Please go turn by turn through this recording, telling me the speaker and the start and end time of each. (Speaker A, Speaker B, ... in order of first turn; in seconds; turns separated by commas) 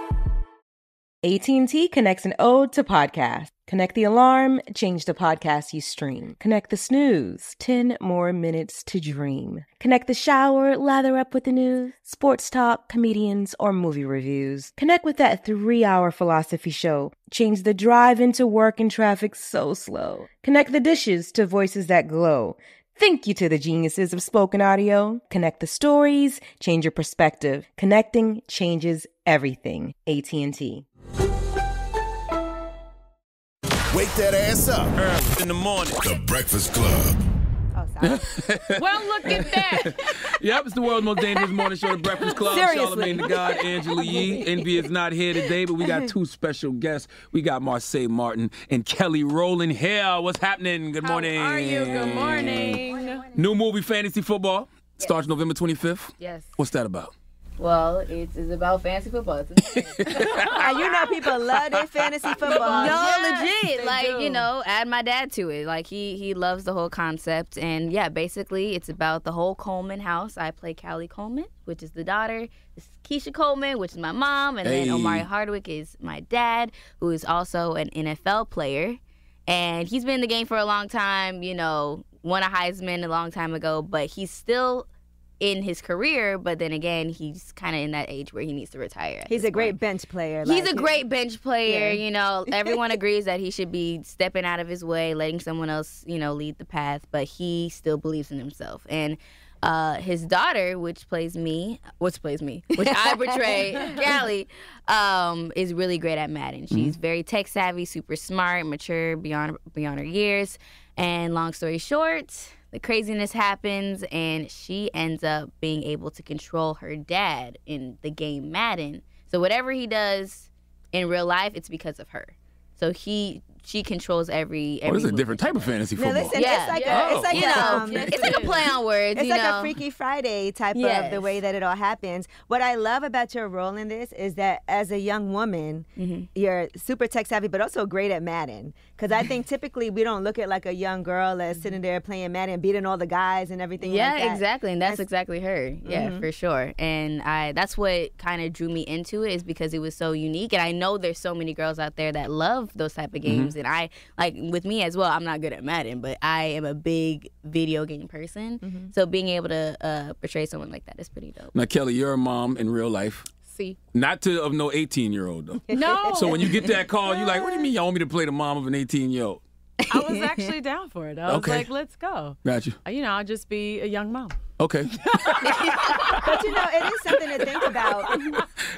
Speaker A: 1.2-30.8, Speaker B: 33.9-34.8, Speaker C: 35.0-36.0, Speaker B: 36.0-37.2, Speaker D: 37.7-38.3, Speaker C: 38.0-52.8, Speaker E: 38.8-40.0, Speaker D: 42.1-44.9, Speaker D: 45.4-46.1, Speaker E: 51.0-53.3, Speaker F: 52.4-53.2, Speaker C: 53.3-57.1, Speaker E: 56.2-56.5, Speaker F: 57.6-61.0, Speaker C: 59.7-60.6, Speaker E: 60.0-61.1, Speaker D: 60.6-63.4, Speaker E: 62.4-64.5, Speaker F: 62.4-84.9, Speaker C: 74.6-75.2, Speaker F: 85.4-89.8, Speaker D: 89.3-90.9, Speaker F: 90.4-125.7, Speaker D: 91.7-92.0, Speaker D: 102.8-103.1, Speaker C: 106.7-107.0, Speaker C: 124.8-127.9, Speaker D: 126.0-145.0, Speaker F: 126.3-129.8, Speaker E: 126.7-128.7, Speaker F: 130.7-131.4, Speaker F: 136.0-136.3, Speaker E: 141.5-141.8, Speaker F: 143.8-161.5, Speaker D: 145.8-146.2, Speaker C: 153.2-153.5, Speaker D: 158.6-158.9, Speaker C: 161.5-163.3, Speaker E: 163.4-163.8, Speaker C: 163.9-169.4, Speaker E: 165.7-166.7, Speaker D: 165.7-166.7, Speaker E: 169.9-174.4, Speaker F: 169.9-170.5, Speaker C: 171.2-171.7, Speaker C: 172.4-172.8, Speaker C: 174.6-175.6, Speaker E: 175.1-176.6, Speaker D: 176.2-178.4, Speaker E: 177.3-178.4